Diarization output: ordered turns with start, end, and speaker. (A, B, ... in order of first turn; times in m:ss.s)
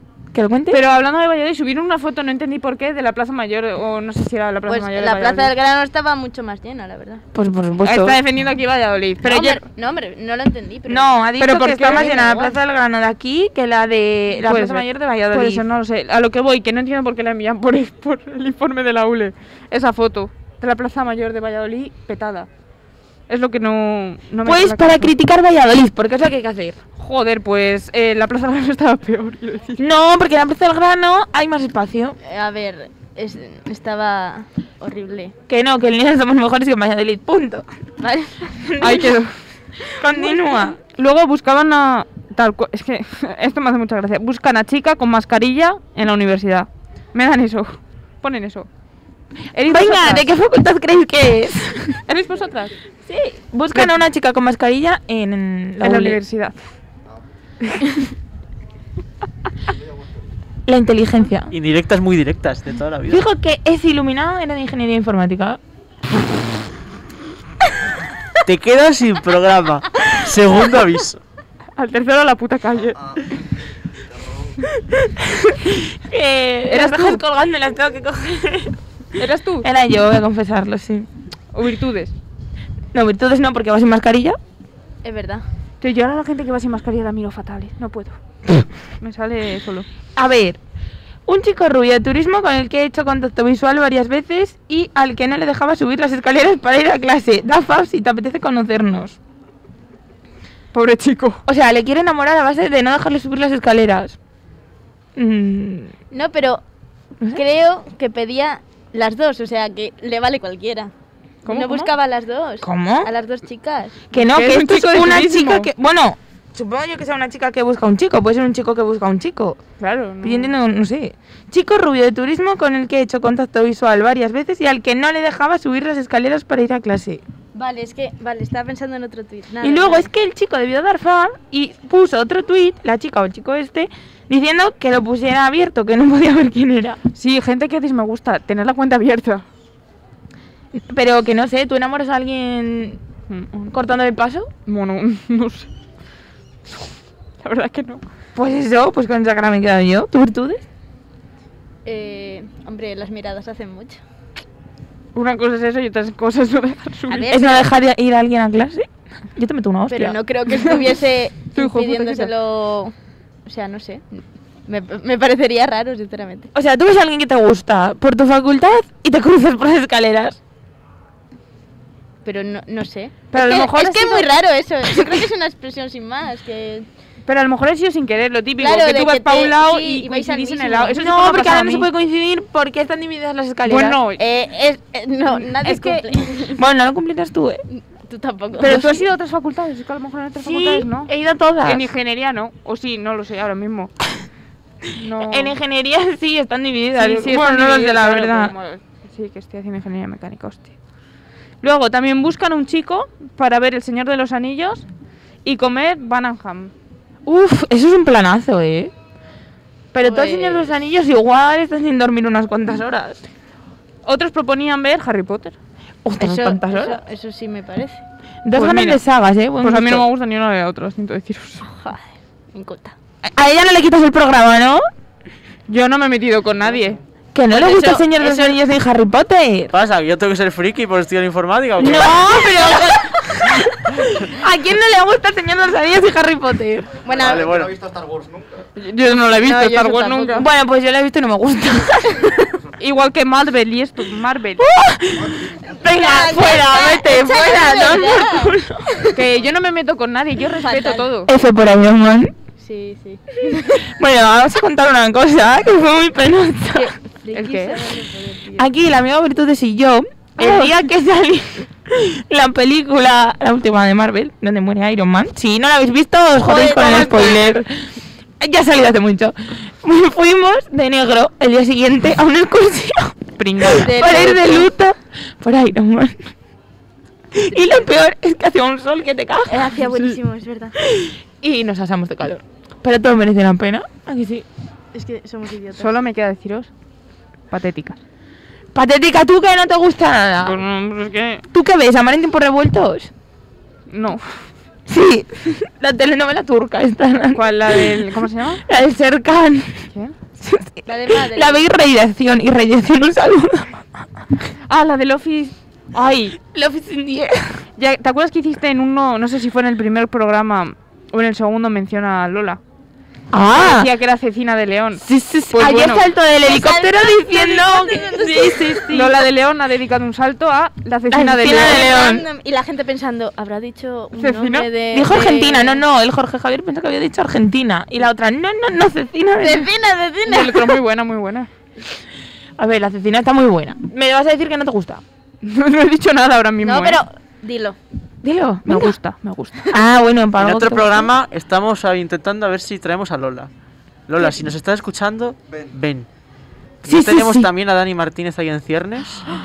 0:00.3-0:00.8 A
0:00.7-0:05.5 B
0:04.7-0:07.2 C
0:07.3-0:08.2 A
0:07.8-0:09.6 B
0:09.2-0:11.1 C
0:10.9-0:15.6 A
0:11.4-0:12.1 B
0:11.8-0:12.6 C
0:14.4-0:22.5 B
0:23.3-0:25.1 B
0:24.4-0:26.8 A
0:27.0-0:29.8 B
0:29.8-0:32.2 A
0:32.2-0:35.3 C
0:35.5-0:37.7 A
0:38.0-0:38.5 C
0:38.6-0:39.2 A
0:38.8-0:39.3 B
0:39.9-0:40.8 A
0:40.2-0:48.7 B
0:49.5-0:50.3 B
0:49.6-0:52.0 A
0:52.1-0:52.7 B
0:53.0-0:56.2 A
0:53.7-0:54.0 B
0:55.8-0:56.6 B
0:59.6-1:00.4 D
1:00.7-1:01.5 A
1:01.5-1:03.2 E
1:03.1-1:05.6 A
1:08.4-1:11.2 E
1:11.8-1:13.0 B
1:12.7-1:14.8 D
1:15.2-1:18.8 A
1:16.7-1:17.2 B
1:19.2-1:19.7 B
1:19.6-1:21.1 A
1:21.5-1:22.1 B
1:22.9-1:24.4 A
1:25.0-1:25.4 C
1:25.8-1:28.2 B
1:29.0-1:29.9 B
1:30.2-1:30.6 A
1:31.3-1:39.2 A
1:40.7-1:41.4 B
1:41.5-1:44.2 A
1:45.2-1:45.9 A
1:46.1-1:46.6 C
1:47.3-1:50.9 C
1:51.4-1:51.9 B
1:51.5-1:54.0 C
1:52.6-1:53.1 A
1:54.1-1:59.6 A
1:54.1-1:55.7 B
1:59.8-2:00.5 B
2:00.2-2:07.2 A
2:07.5-2:10.1 C
2:09.6-2:17.0 A
2:17.2-2:19.4 B
2:20.7-2:23.0 A
2:23.3-2:23.6 B
2:23.6-2:24.5 A
2:24.7-2:25.7 B
2:27.4-2:28.0 B
2:28.4-2:30.6 A
2:31.8-2:34.0 C
2:35.2-2:37.3 B
2:37.1-2:37.7 C
2:37.3-2:40.2 A
2:39.9-2:42.9 C
2:40.5-2:40.9 B
2:41.5-2:42.3 B
2:43.5-2:46.5 C
2:46.5-2:50.4 A
2:52.2-2:56.9 C
2:53.3-2:54.3 B
2:57.3-3:01.9 B
2:58.6-3:01.0 C
3:00.9-3:04.0 A
3:03.7-3:04.2 B
3:04.2-3:06.6 C
3:05.3-3:06.1 B
3:06.5-3:07.6 A
3:07.7-3:08.8 C
3:08.6-3:09.0 A
3:08.6-3:11.1 B
3:10.4-3:11.9 A
3:11.6-3:13.9 B
3:15.0-3:15.6 B
3:15.2-3:18.5 A
3:17.0-3:20.7 B
3:21.6-3:24.9 B
3:25.4-3:26.7 B
3:27.3-3:28.9 A
3:29.9-3:33.2 A
3:30.0-3:30.7 C
3:34.0-3:35.6 B
3:36.0-3:37.0 A
3:36.2-3:38.0 C
3:38.4-3:40.1 A
3:38.6-3:39.0 B
3:39.6-3:41.6 B
3:41.6-3:43.0 C
3:43.2-3:44.8 A
3:45.7-3:47.0 B
3:47.3-3:49.7 A
3:47.5-3:48.6 C
3:49.7-3:52.3 E
3:51.8-3:56.9 A
3:51.9-3:53.4 C
3:57.0-3:58.7 D
3:57.0-3:57.5 C
3:57.2-3:57.7 E
3:58.8-4:00.5 B
3:59.4-4:00.5 C
4:00.4-4:02.4 A
4:02.4-4:02.7 D
4:02.8-4:04.7 B
4:04.6-4:09.1 A
4:05.1-4:05.8 D
4:05.7-4:09.2 C
4:09.1-4:11.3 B
4:10.6-4:11.1 C
4:11.3-4:12.3 A
4:12.6-4:13.9 C
4:13.8-4:16.9 A
4:16.7-4:18.7 C
4:17.3-4:17.9 B
4:18.6-4:27.9 A
4:20.4-4:20.8 B
4:26.4-4:27.6 C
4:28.4-4:36.3 A
4:33.4-4:34.2 B
4:33.8-4:34.7 C
4:37.3-4:39.8 A
4:37.5-4:37.9 C
4:39.5-4:40.7 C
4:39.9-4:40.2 B
4:40.8-4:44.4 A
4:44.9-4:46.0 C
4:45.7-4:46.7 B
4:47.5-4:48.0 B
4:48.7-4:50.6 A
4:50.4-4:51.4 B
4:51.5-4:53.1 A
4:53.9-4:54.3 B
4:54.9-4:58.1 A
4:57.4-4:58.6 B
4:58.6-4:59.8 A
5:00.4-5:03.8 A
5:00.9-5:01.6 C
5:04.7-5:05.6 B
5:05.9-5:07.6 A
5:07.8-5:12.6 B
5:13.3-5:13.9 A
5:13.5-5:16.1 B
5:15.0-5:19.1 A
5:16.4-5:18.9 C
5:18.8-5:21.9 B
5:21.1-5:22.2 A
5:21.5-5:25.8 C
5:24.2-5:24.7 B
5:24.9-5:29.7 A
5:29.4-5:30.8 C
5:30.3-5:31.5 B
5:32.6-5:35.0 A
5:35.4-5:37.0 B
5:36.6-5:37.8 C
5:38.2-5:39.0 A
5:38.6-5:39.7 B
5:39.7-5:41.1 A
5:40.4-5:43.5 E
5:44.1-5:46.1 E
5:45.5-5:45.8 D
5:46.8-5:47.5 A
5:46.8-5:49.3 E